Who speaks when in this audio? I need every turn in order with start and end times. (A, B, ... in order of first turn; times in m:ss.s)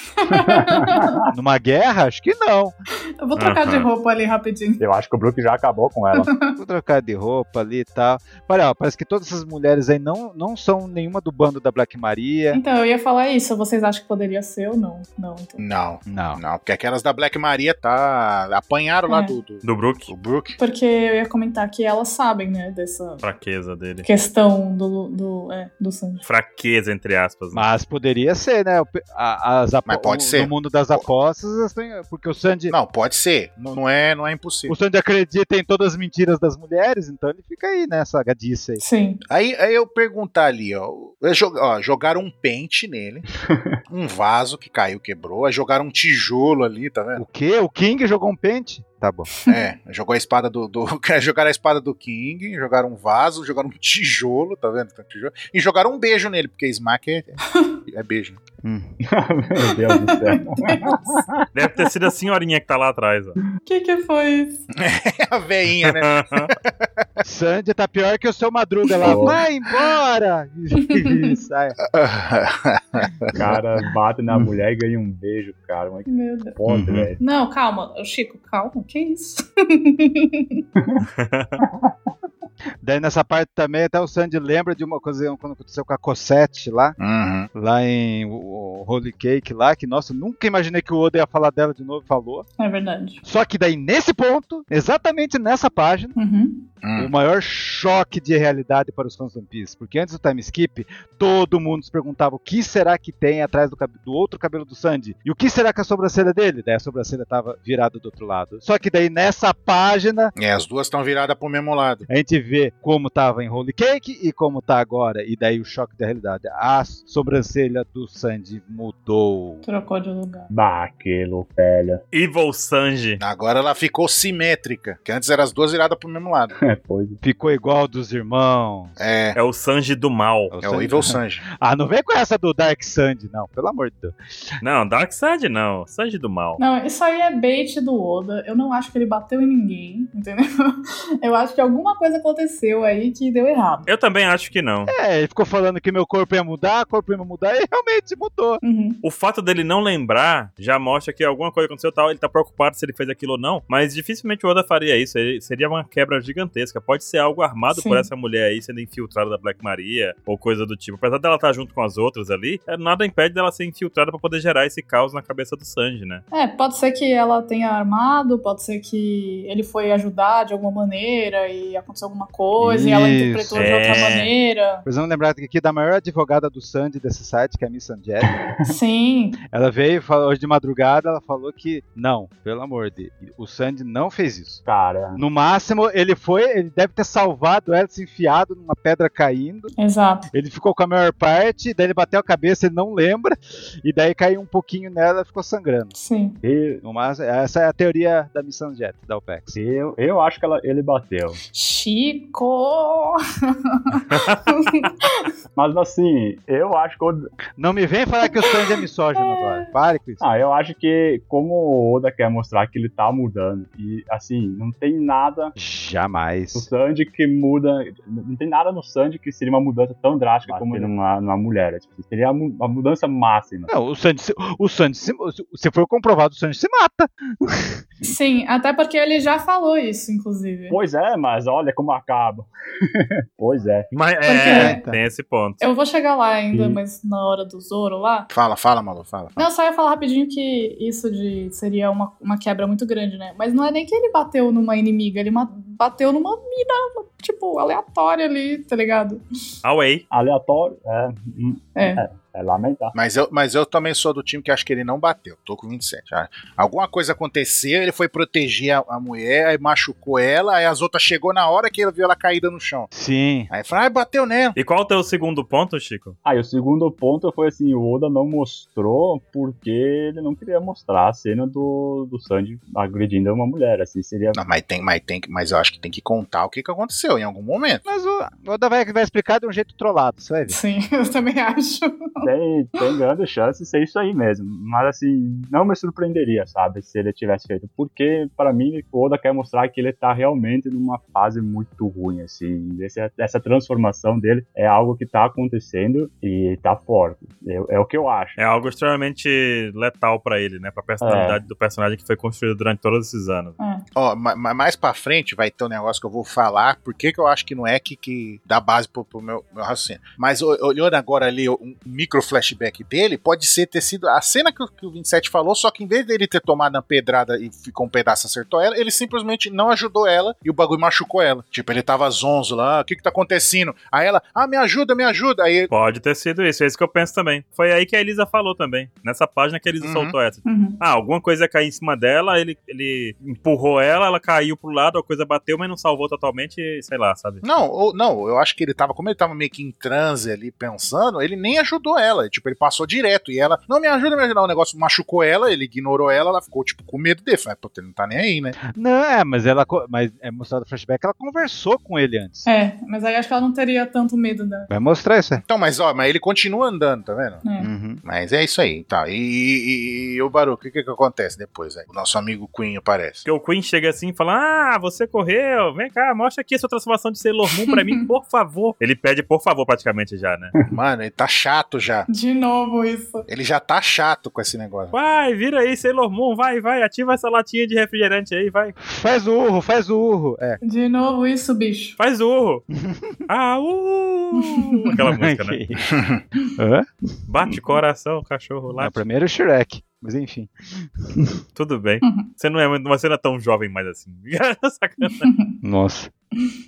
0:00.2-0:01.2 A
0:00.4-0:01.2 B
0:01.3-0:02.7 C
0:03.2-0:04.8 A
0:03.4-0:03.9 D
0:04.8-0:06.3 B
0:06.1-0:06.5 A
0:06.6-0:12.6 C
0:12.5-0:15.6 A
0:15.6-0:20.6 E
0:16.1-0:16.4 C
0:19.1-0:19.3 A
0:19.6-0:20.1 D
0:20.6-0:23.2 A
0:23.2-0:24.0 D
0:24.0-0:26.2 A
0:26.2-0:27.6 D
0:27.5-0:32.7 C
0:29.9-0:31.0 E
0:32.7-0:34.7 E
0:34.7-0:38.8 C
0:38.8-0:39.2 A
0:39.3-0:43.2 E
0:43.4-0:43.8 B
0:43.9-0:47.2 E
0:47.2-0:49.3 C
0:49.4-0:58.4 E
0:58.6-0:58.9 C
0:59.0-1:01.4 B
0:59.9-1:01.2 A
1:01.5-1:03.4 D
1:03.6-1:04.6 A
1:04.8-1:07.0 E
1:05.8-1:06.5 D
1:07.2-1:11.8 C
1:09.0-1:09.4 B
1:10.9-1:11.3 A
1:11.9-1:13.6 E
1:13.4-1:17.2 B
1:16.1-1:16.6 A
1:16.7-1:17.1 C
1:17.2-1:20.6 A
1:20.8-1:21.0 B
1:21.1-1:21.6 D
1:21.6-1:21.9 B
1:22.8-1:27.0 C
1:27.0-1:27.5 E
1:27.5-1:32.4 C
1:32.6-1:33.2 A
1:33.2-1:36.1 C
1:36.2-1:36.6 A
1:36.8-1:37.1 E
1:37.0-1:50.3 C
1:50.4-1:52.0 E
1:52.1-1:59.6 C
1:59.6-2:00.5 A
2:00.5-2:02.0 B
2:02.1-2:03.2 D
2:03.2-2:06.5 E
2:06.6-2:07.2 B
2:07.2-2:09.0 C
2:09.0-2:09.4 E
2:09.3-2:10.5 D
2:10.5-2:14.1 C
2:10.6-2:11.4 E
2:14.6-2:16.6 D
2:16.6-2:23.9 A
2:23.9-2:24.9 D
2:24.9-2:28.6 C
2:28.6-2:29.0 A
2:29.0-2:46.2 D
2:37.7-2:38.1 A
2:46.3-2:54.8 A
2:52.6-2:54.2 C
2:53.5-2:54.3 D
2:54.8-2:58.4 C
2:58.2-2:58.7 B
2:58.6-2:59.4 A
2:59.5-3:04.6 C
3:04.6-3:05.2 B
3:05.2-3:09.7 C
3:09.8-3:10.3 A
3:10.3-3:15.9 C
3:15.9-3:16.4 A
3:16.4-3:16.8 B
3:16.8-3:19.6 C
3:19.5-3:21.4 B
3:21.5-3:23.2 A
3:23.7-3:25.2 A
3:24.1-3:24.4 D
3:25.5-3:27.3 B
3:27.6-3:30.2 C
3:29.2-3:29.6 A
3:30.2-3:35.5 B
3:35.6-3:36.7 C
3:36.5-3:43.7 B
3:40.5-3:40.9 C
3:43.7-3:47.8 C
3:48.0-3:50.8 A
3:50.7-3:53.9 B
3:53.9-3:55.6 D
3:54.2-3:54.8 A
3:54.4-3:55.0 C
3:55.6-3:58.3 A
3:56.5-3:56.8 B
3:58.3-3:59.4 E
3:59.4-4:09.2 A
4:09.6-4:10.0 D
4:10.1-4:12.9 B
4:11.8-4:12.0 A
4:12.9-4:22.9 E
4:22.9-4:23.5 C
4:23.5-4:24.6 E
4:24.6-4:26.2 D
4:26.2-4:34.4 B
4:34.3-4:37.8 E
4:37.8-4:40.6 C
4:40.5-4:42.0 A
4:42.2-4:58.4 B
4:58.4-5:03.6 D
5:01.0-5:01.4 B
5:04.0-5:25.7 E
5:25.7-5:37.4 D
5:29.8-5:30.1 E
5:30.4-5:30.8 A
5:37.4-5:48.6 E
5:48.6-5:52.4 C
5:52.4-5:54.7 A
5:54.7-5:55.4 C
5:55.4-5:57.4 E
5:57.4-5:57.7 A
5:57.6-5:58.0 C
5:58.0-6:03.2 E
6:03.2-6:10.5 D
6:07.7-6:08.0 A
6:10.7-6:12.1 E
6:12.1-6:13.2 A
6:13.3-6:14.9 E
6:14.9-6:18.7 D
6:18.8-6:20.6 C
6:20.6-6:22.0 A
6:22.0-6:22.6 D
6:22.7-6:23.2 C
6:23.3-6:25.6 D
6:25.0-6:25.9 C
6:25.9-6:26.2 E
6:26.6-6:26.9 C
6:27.3-6:29.0 D
6:28.7-6:31.4 C
6:31.5-6:35.3 D
6:32.0-6:32.3 A
6:35.2-6:35.5 A
6:35.6-6:36.1 C